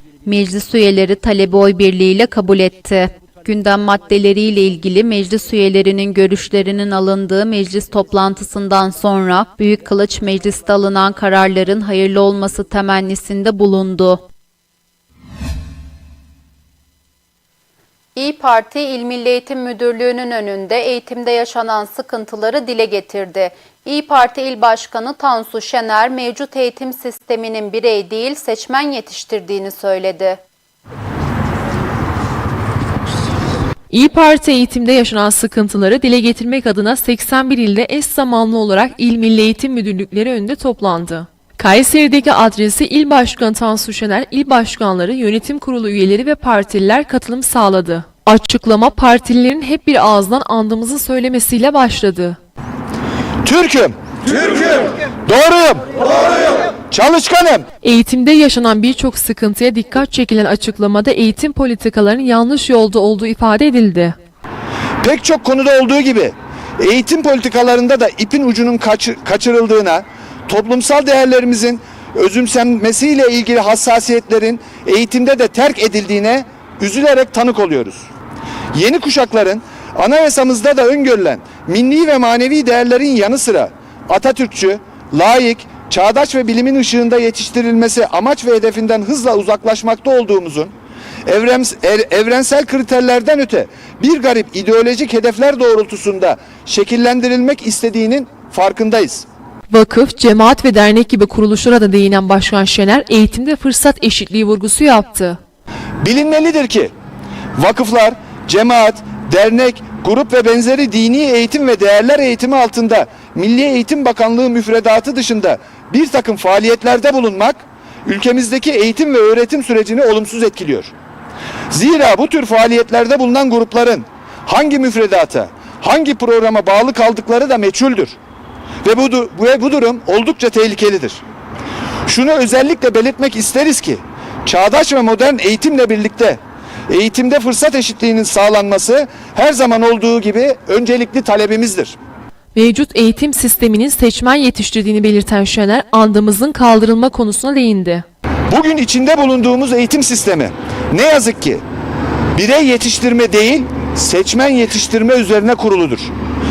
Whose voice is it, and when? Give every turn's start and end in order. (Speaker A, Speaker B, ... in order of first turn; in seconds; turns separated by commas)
Speaker A: 0.2-14.2, Speaker A: 18.1-30.4, Speaker B: 33.9-52.4, Speaker C: 53.4-55.9, Speaker C: 56.8-57.7, Speaker B: 57.8-64.2, Speaker C: 65.0-78.1, Speaker C: 78.7-90.7, Speaker C: 91.2-99.3, Speaker B: 99.7-105.4, Speaker C: 106.0-106.9, Speaker C: 107.5-120.9, Speaker C: 121.7-128.2, Speaker C: 128.8-131.2, Speaker C: 132.1-142.0, Speaker B: 142.5-148.1, Speaker C: 148.5-151.6, Speaker C: 152.3-156.1